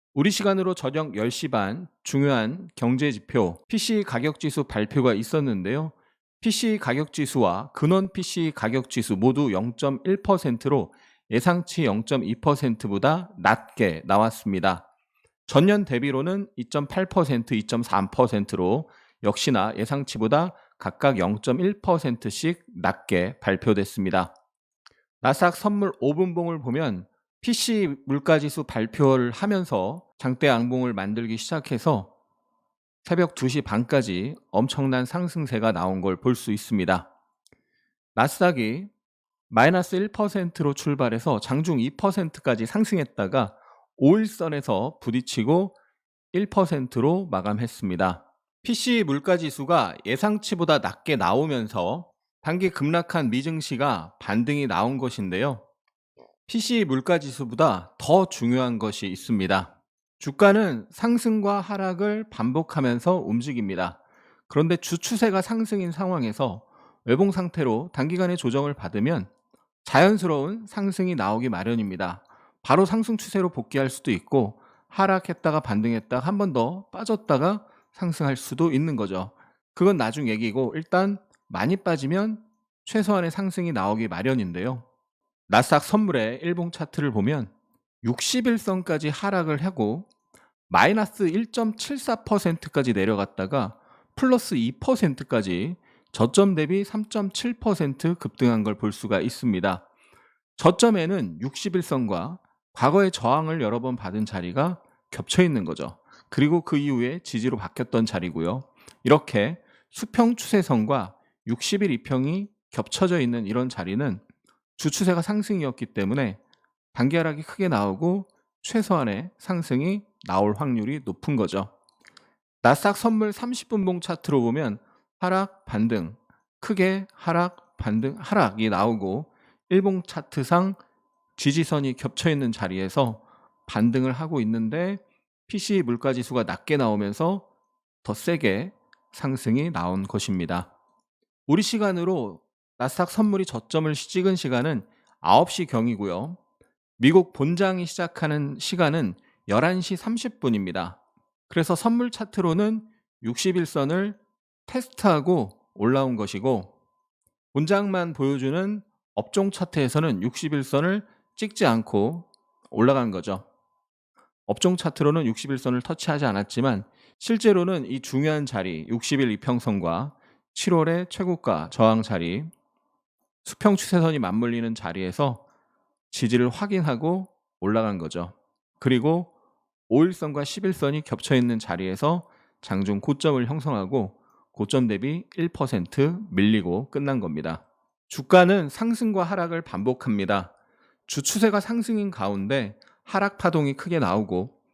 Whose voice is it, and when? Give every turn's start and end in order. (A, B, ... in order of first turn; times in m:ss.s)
0:00.2-0:14.9 A
0:15.5-0:24.3 A
0:25.2-0:32.1 A
0:33.0-0:37.1 A
0:38.2-0:38.9 A
0:39.5-0:45.8 A
0:46.3-0:55.6 A
0:56.5-1:09.3 A
1:09.8-1:24.9 A
1:25.5-1:27.5 A
1:28.0-1:30.1 A
1:30.7-1:39.8 A
1:40.6-1:54.2 A
1:54.8-1:56.4 A
1:56.9-2:01.7 A
2:02.6-2:10.8 A
2:11.4-2:17.4 A
2:18.0-2:20.7 A
2:21.5-2:26.4 A
2:27.0-2:36.7 A
2:37.5-2:43.5 A
2:44.5-2:52.5 A
2:53.4-2:55.4 A
2:56.1-2:59.3 A
2:59.9-3:10.5 A
3:11.1-3:14.5 A